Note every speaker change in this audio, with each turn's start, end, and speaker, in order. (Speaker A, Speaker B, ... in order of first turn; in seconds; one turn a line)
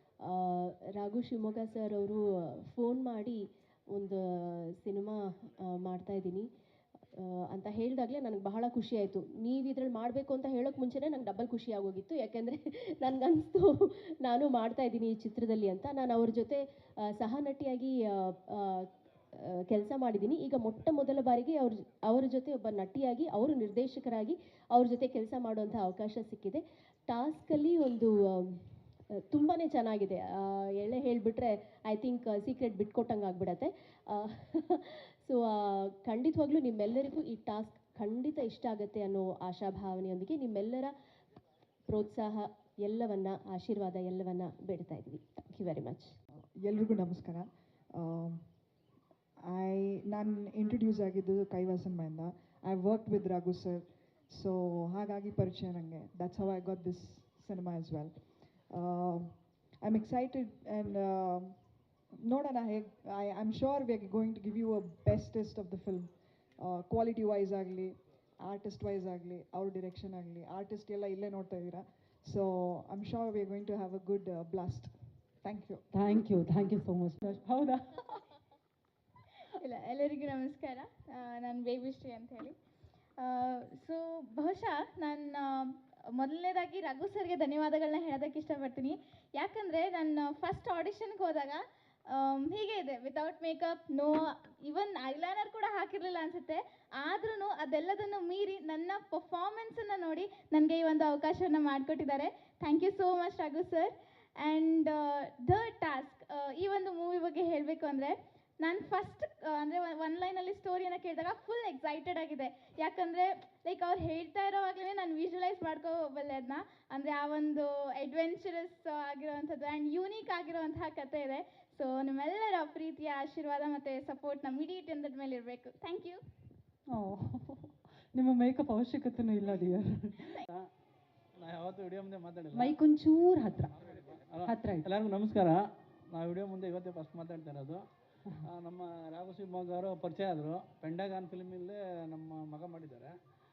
Speaker A: 0.2-3.4
Speaker A: 3.9-6.4
Speaker A: 7.1-18.8
Speaker A: 19.7-28.6
Speaker A: 29.3-40.9
Speaker A: 41.9-46.1
Speaker B: 46.6-48.4
Speaker B: 49.4-61.5
Speaker B: 62.2-75.9
Speaker C: 75.9-78.2
Speaker D: 79.5-82.5
Speaker D: 83.2-126.2
Speaker C: 126.9-130.3
Speaker E: 131.4-132.8
Speaker C: 132.5-133.7
Speaker E: 133.8-137.8
Speaker C: 134.4-134.8
Speaker E: 138.4-143.1